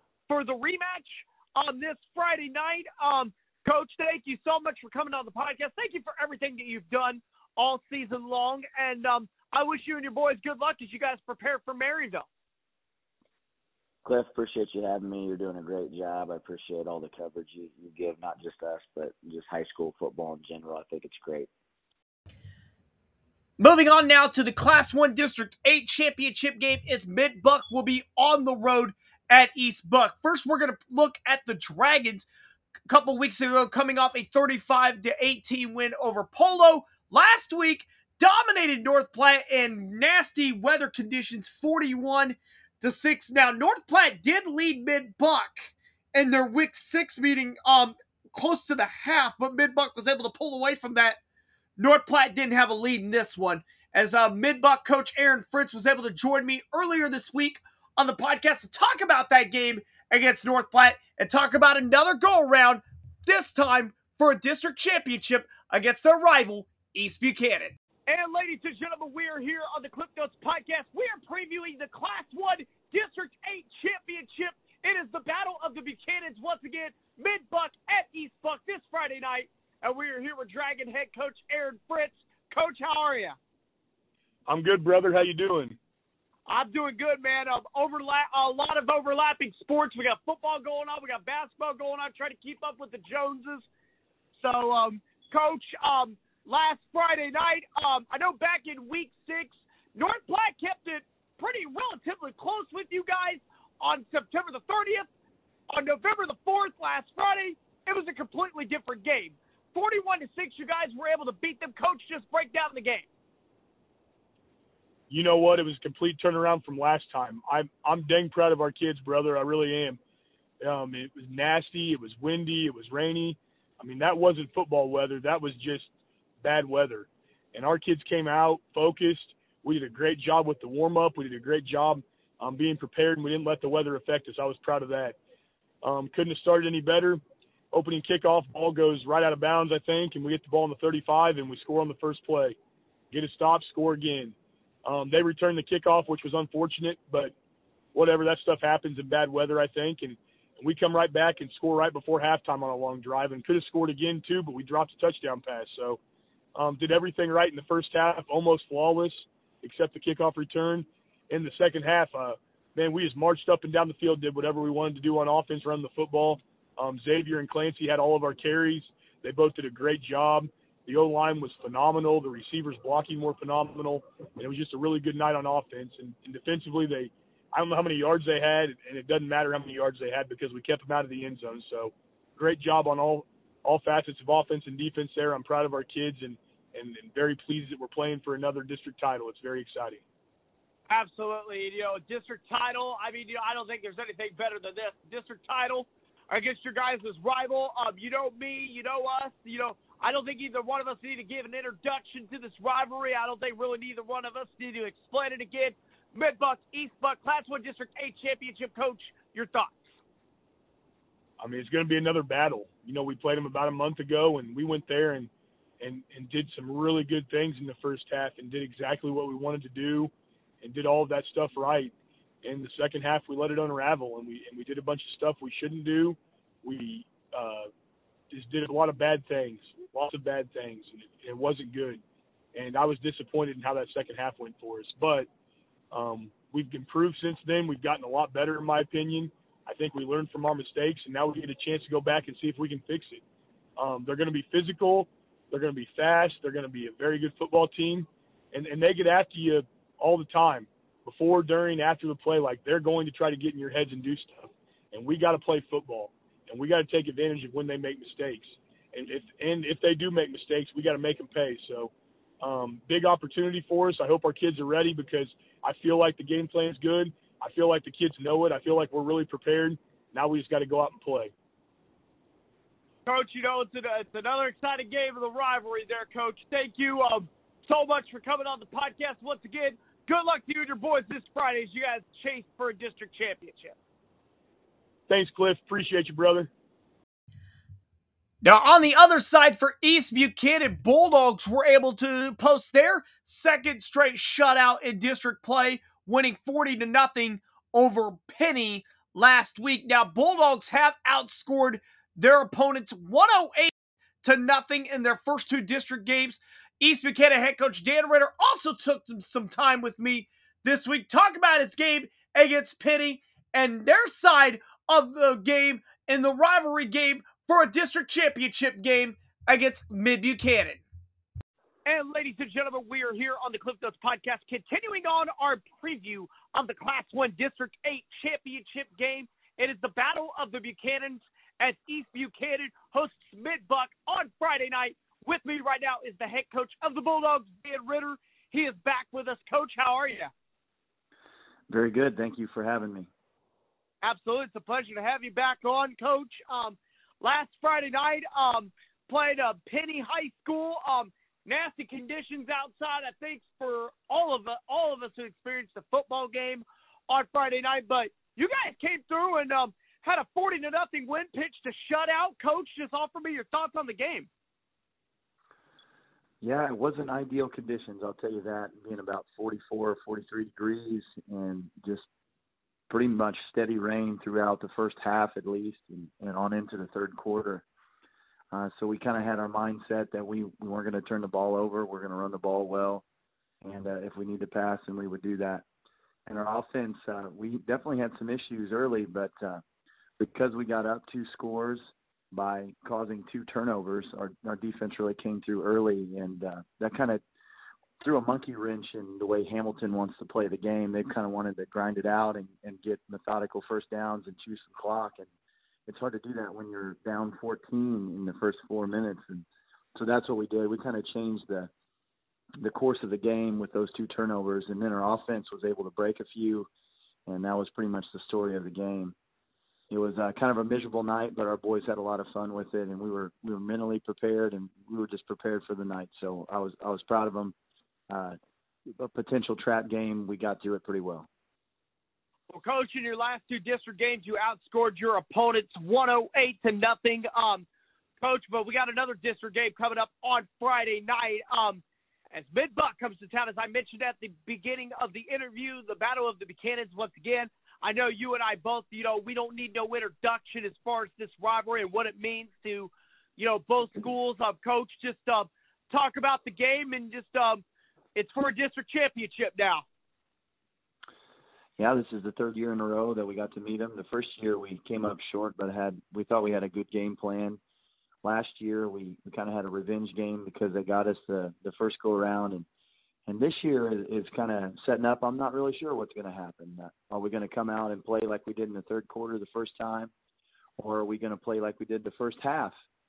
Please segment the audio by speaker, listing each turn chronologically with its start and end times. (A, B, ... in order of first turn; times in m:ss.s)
0:00.3-0:12.3 A
0:14.0-0:21.5 B
0:23.6-0:32.3 C
0:32.9-0:51.2 C
0:51.8-1:07.8 C
1:08.1-1:23.4 A
1:24.5-1:25.8 D
1:26.5-1:33.7 A
1:34.4-1:45.1 A
1:45.7-1:53.1 A
1:55.1-2:00.0 D
2:00.6-2:05.9 D
2:06.4-2:15.2 D
2:15.8-2:17.2 D
2:17.7-2:22.6 D
2:23.1-2:27.3 D
2:27.9-2:36.0 D
2:36.6-3:10.0 D
3:10.9-3:29.8 A
3:31.4-3:35.3 D
3:35.8-3:40.1 D
3:40.6-3:41.9 D
3:42.4-3:47.7 D
3:48.3-3:52.0 D
3:52.6-3:55.3 D
3:55.9-4:03.2 D
4:03.8-4:31.3 D
4:33.1-4:43.8 A
4:45.1-4:46.5 D
4:48.4-5:03.7 C
5:04.2-5:20.8 C
5:21.9-5:40.3 A
5:41.7-5:43.1 E
5:44.0-6:04.3 A
6:06.4-6:12.1 E
6:12.9-6:17.6 E
6:18.5-6:23.0 E
6:23.6-6:25.6 E
6:26.3-6:29.6 E
6:30.2-6:31.8 E
6:32.3-6:37.2 E
6:38.0-6:45.3 E
6:45.9-6:51.7 E
6:52.6-6:56.7 E
6:57.3-6:59.2 E
6:59.9-7:07.6 E
7:08.1-7:08.4 E
7:09.0-7:11.3 E
7:12.5-7:17.7 A
7:18.2-7:21.8 A
7:22.3-7:37.6 A
7:38.2-7:39.8 A
7:41.8-7:47.6 E
7:48.2-7:52.7 E
7:53.3-8:00.1 E
8:00.8-8:02.7 E